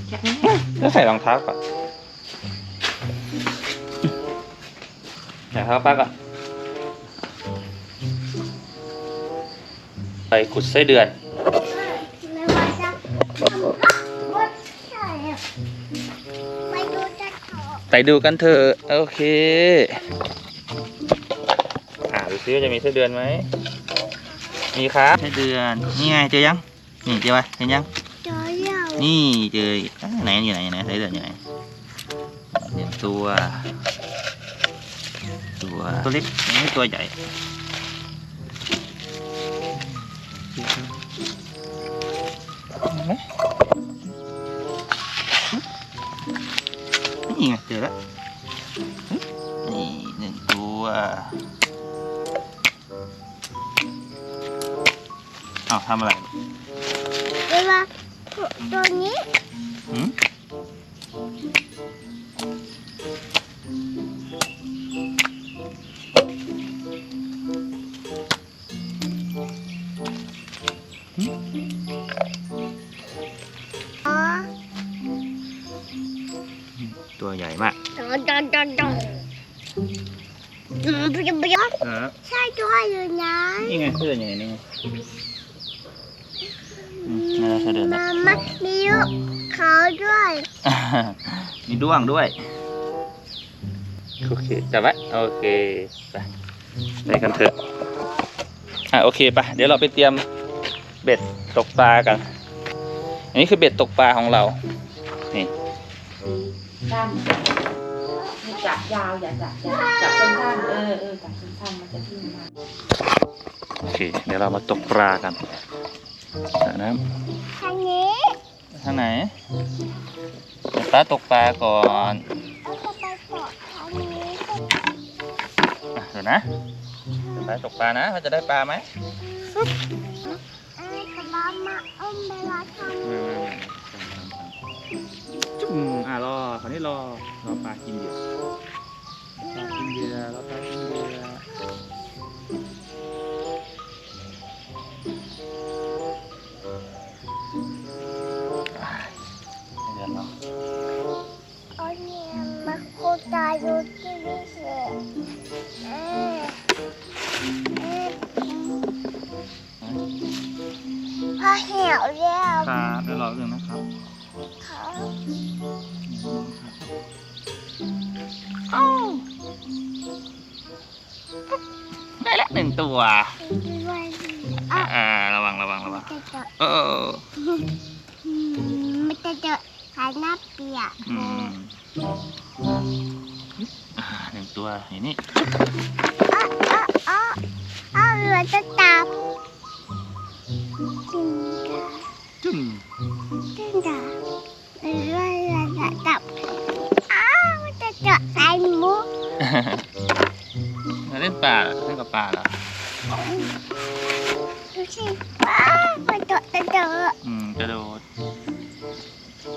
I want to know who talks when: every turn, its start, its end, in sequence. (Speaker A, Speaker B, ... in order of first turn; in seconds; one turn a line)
Speaker A: 0.2-1.6
Speaker A: 5.5-6.1
Speaker A: 10.3-11.1
Speaker B: 11.7-15.4
Speaker B: 16.7-17.8
Speaker A: 17.9-20.0
Speaker A: 22.1-23.5
Speaker A: 24.7-27.9
Speaker B: 28.2-29.1
Speaker A: 29.0-31.4
Speaker A: 32.5-33.6
Speaker A: 35.6-37.1
Speaker A: 40.5-40.9
Speaker A: 42.9-43.2
Speaker A: 47.3-47.9
Speaker A: 49.1-51.4
Speaker A: 55.7-56.3
Speaker B: 57.5-59.2
Speaker B: 74.0-74.5
Speaker A: 76.8-77.8
Speaker B: 78.0-79.1
Speaker B: 80.8-83.9
Speaker A: 81.8-82.1
Speaker A: 83.6-84.6
Speaker B: 86.8-90.5
Speaker A: 87.1-88.0
Speaker A: 90.6-92.3
Speaker A: 94.2-96.3
Speaker A: 97.0-97.5
Speaker A: 98.9-100.2
Speaker A: 101.0-102.2
Speaker A: 103.3-104.6
Speaker C: 106.2-107.6
Speaker C: 108.2-112.5
Speaker B: 108.4-108.8
Speaker B: 109.7-110.6
Speaker A: 113.8-115.4
Speaker A: 116.6-117.0
Speaker B: 117.5-118.4
Speaker A: 118.7-119.3
Speaker A: 120.7-122.2
Speaker B: 122.6-124.7
Speaker A: 126.0-126.4
Speaker A: 127.4-128.9
Speaker B: 129.2-133.1
Speaker A: 133.0-134.6
Speaker A: 135.6-138.2
Speaker B: 139.4-140.0
Speaker A: 139.4-141.4
Speaker A: 148.8-149.1
Speaker A: 149.8-150.3
Speaker B: 151.8-155.0
Speaker B: 155.8-156.6
Speaker B: 157.7-158.9
Speaker B: 161.4-162.8
Speaker A: 162.6-163.8
Speaker B: 164.6-165.2
Speaker A: 166.1-166.9
Speaker A: 168.7-169.2
Speaker A: 172.2-173.3
Speaker B: 173.4-174.9
Speaker A: 174.7-177.2
Speaker B: 175.8-176.5
Speaker B: 177.4-177.7
Speaker B: 178.2-181.5
Speaker A: 181.0-181.7
Speaker A: 184.0-185.2
Speaker B: 186.3-187.4
Speaker B: 187.9-189.2
Speaker B: 191.1-192.0
Speaker A: 192.4-192.8
Speaker B: 193.5-194.1
Speaker B: 194.8-196.2
Speaker B: 197.1-199.1
Speaker A: 199.4-199.8
Speaker A: 201.1-202.6
Speaker B: 204.7-207.2
Speaker A: 207.2-208.0